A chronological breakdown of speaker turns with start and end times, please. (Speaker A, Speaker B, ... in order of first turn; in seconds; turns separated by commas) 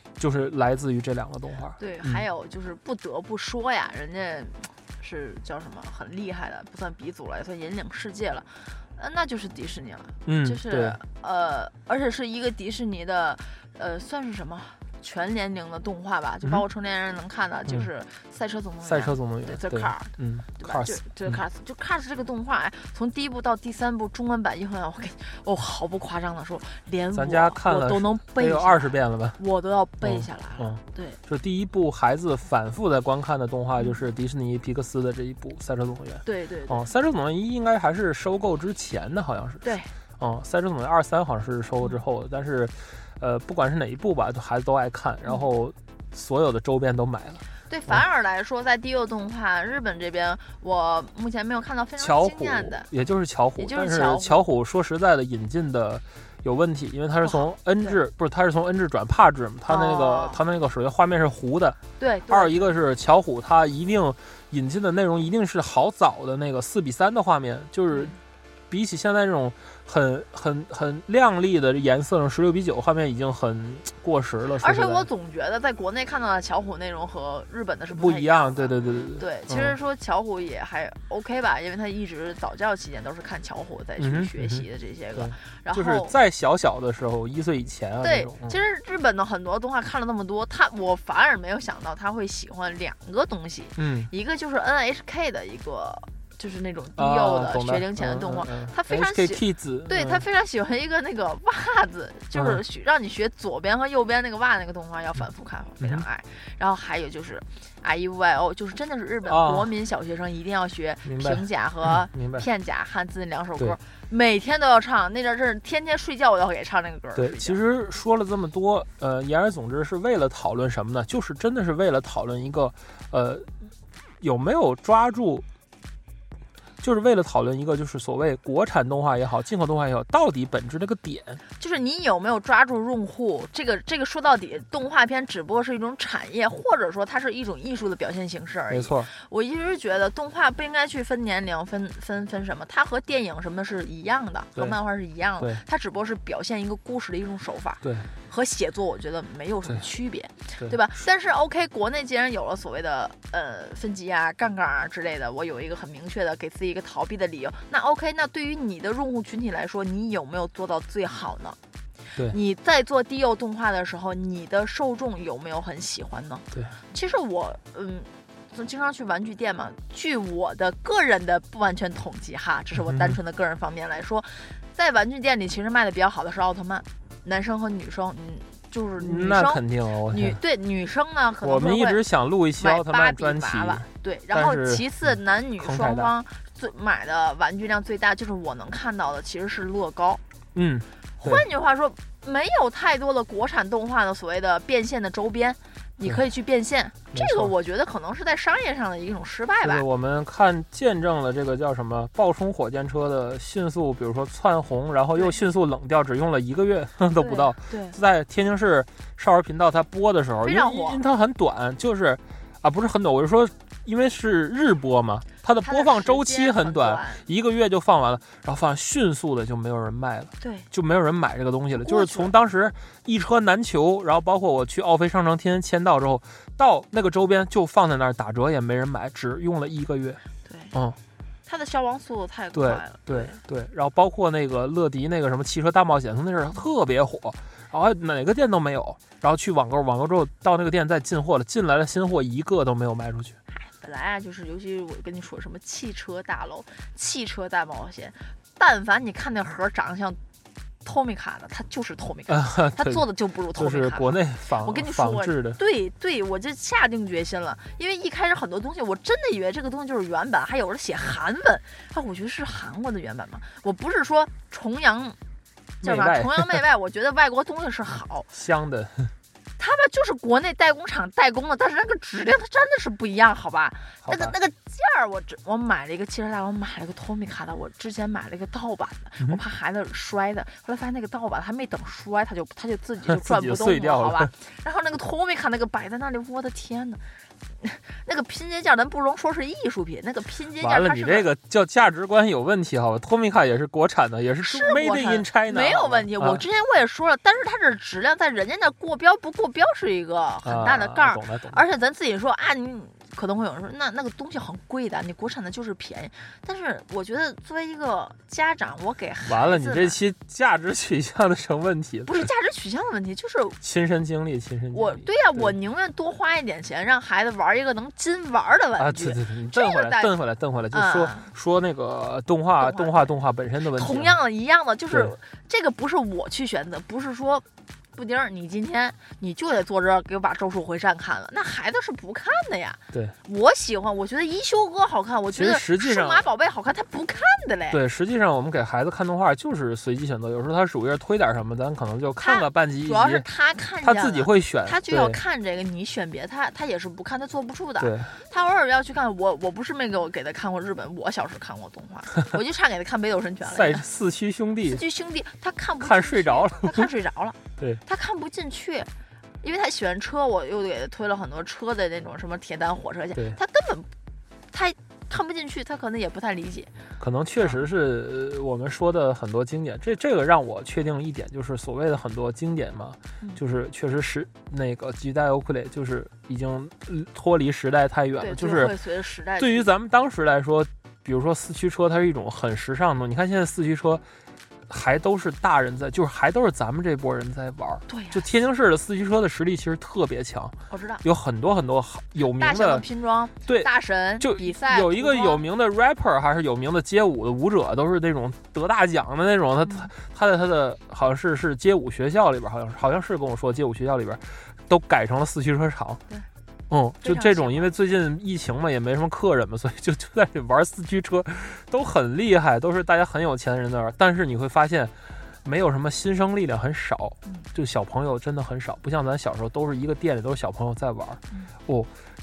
Speaker A: 0.2-2.2, Speaker B: 1.8-31.2, Speaker A: 10.2-11.0, Speaker A: 18.8-21.4, Speaker A: 27.1-29.4, Speaker A: 30.0-39.7, Speaker B: 36.2-36.9, Speaker B: 39.6-39.9, Speaker A: 40.2-48.0, Speaker B: 47.7-52.9, Speaker A: 52.0-68.1, Speaker B: 53.6-54.4, Speaker B: 57.2-58.0, Speaker B: 59.7-60.4, Speaker B: 62.0-62.7, Speaker B: 67.9-68.2, Speaker A: 68.7-75.1, Speaker B: 74.6-86.2, Speaker A: 77.9-79.8, Speaker A: 84.0-88.6, Speaker B: 88.0-117.6, Speaker A: 93.8-94.1, Speaker A: 97.0-100.2, Speaker A: 102.3-102.6, Speaker A: 109.2-109.7, Speaker A: 111.0-112.4, Speaker A: 117.2-123.5, Speaker A: 124.2-125.4, Speaker A: 126.8-131.4, Speaker B: 131.6-161.6, Speaker A: 138.7-139.1, Speaker A: 147.8-148.1, Speaker B: 162.2-182.0, Speaker A: 172.9-173.2, Speaker A: 179.0-180.4, Speaker A: 181.4-184.9, Speaker B: 182.6-190.2, Speaker A: 185.6-186.1, Speaker A: 190.5-191.4, Speaker B: 191.2-199.8, Speaker A: 197.1-197.5, Speaker A: 199.6-230.2, Speaker B: 207.1-208.0, Speaker B: 210.4-211.0, Speaker B: 215.6-217.3, Speaker B: 220.4-220.7, Speaker B: 221.8-222.3, Speaker B: 230.4-230.8, Speaker A: 230.7-231.0, Speaker B: 231.4-233.4, Speaker A: 232.5-243.3, Speaker B: 243.5-250.2, Speaker B: 250.8-265.2, Speaker A: 252.3-255.6, Speaker B: 265.8-268.3, Speaker A: 265.8-266.6, Speaker A: 268.3-269.1, Speaker B: 269.6-291.3, Speaker A: 274.0-274.4, Speaker A: 283.1-284.3, Speaker A: 290.6-296.4, Speaker B: 294.4-310.0, Speaker A: 300.4-301.6, Speaker A: 309.2-312.3, Speaker B: 312.0-313.6, Speaker A: 313.6-315.6, Speaker B: 314.7-320.1, Speaker A: 318.8-324.2, Speaker B: 320.7-321.3, Speaker B: 322.6-337.8, Speaker A: 324.9-325.1, Speaker A: 335.3-336.2, Speaker A: 337.7-343.2, Speaker B: 342.2-353.9, Speaker A: 343.8-345.2, Speaker A: 347.8-348.1, Speaker A: 353.4-354.8, Speaker B: 354.6-358.9, Speaker A: 355.8-356.9, Speaker B: 359.4-363.9, Speaker B: 364.5-366.7, Speaker A: 367.0-378.8, Speaker B: 378.2-379.7, Speaker A: 379.4-384.0, Speaker A: 384.7-392.8, Speaker B: 387.9-388.2, Speaker B: 390.7-391.0, Speaker B: 392.3-395.4, Speaker A: 393.4-406.0, Speaker A: 406.7-421.9, Speaker B: 407.0-407.7